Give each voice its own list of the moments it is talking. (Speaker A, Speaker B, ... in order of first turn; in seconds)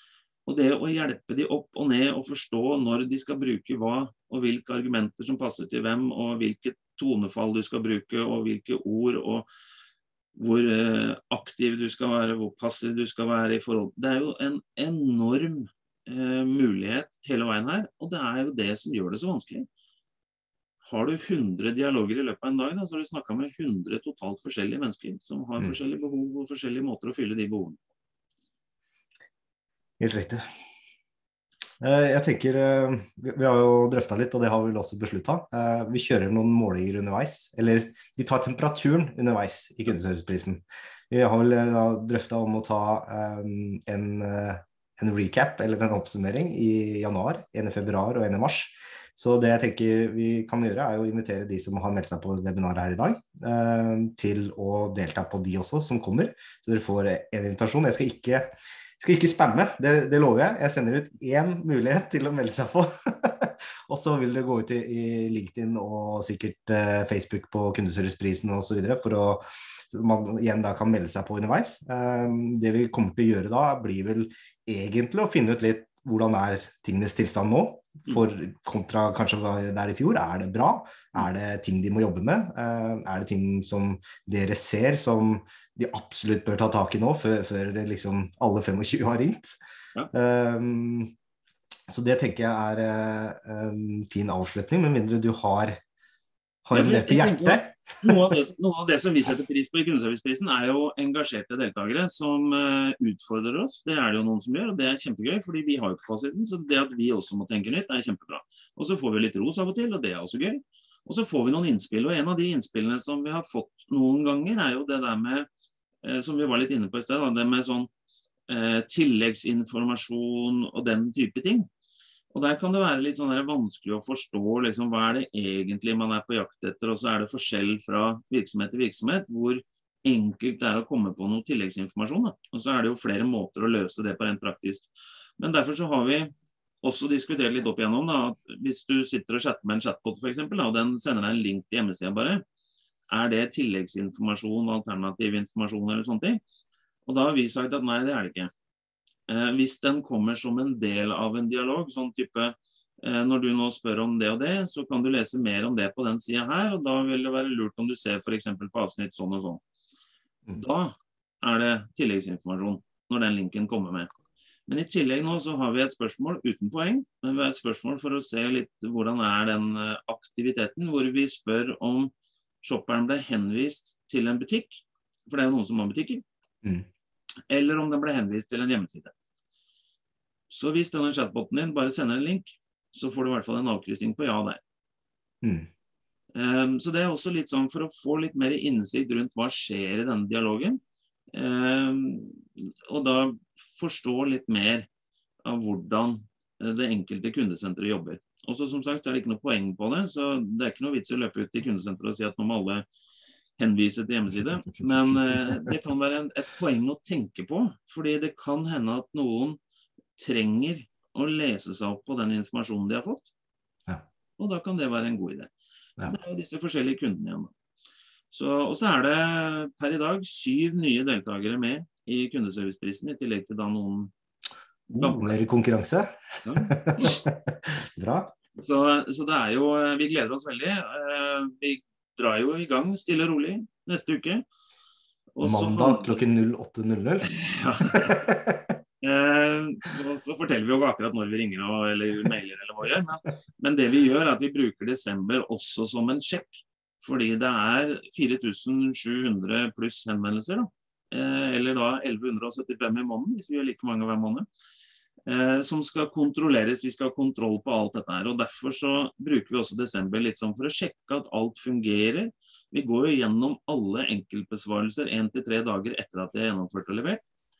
Speaker A: 0.5-9.5, 10.3-19.7, 20.8-27.8, 96.7-115.5, 116.0-117.9, 118.5-121.7, 122.3-136.3, 136.8-142.4, 143.1-146.4, 147.1-148.5, 149.3-159.6, 160.5-164.1, 164.7-172.1, 172.6-176.2, 177.5-179.1, 180.5-184.6, 186.3-190.8, 191.3-194.9, 195.4-202.8, 203.6-209.6, 210.2-213.3, 214.4-217.5, 218.3-224.1, 224.9-225.3, 226.4-227.2, 228.6-234.4, 235.3-236.2, 237.3-238.2, 239.0-254.4, 255.3-267.2
Speaker B: 30.0-30.4, 31.8-89.5, 90.1-91.1, 91.9-95.8, 96.7-98.3, 185.4-185.7, 204.8-205.7, 224.9-228.3, 235.4-238.8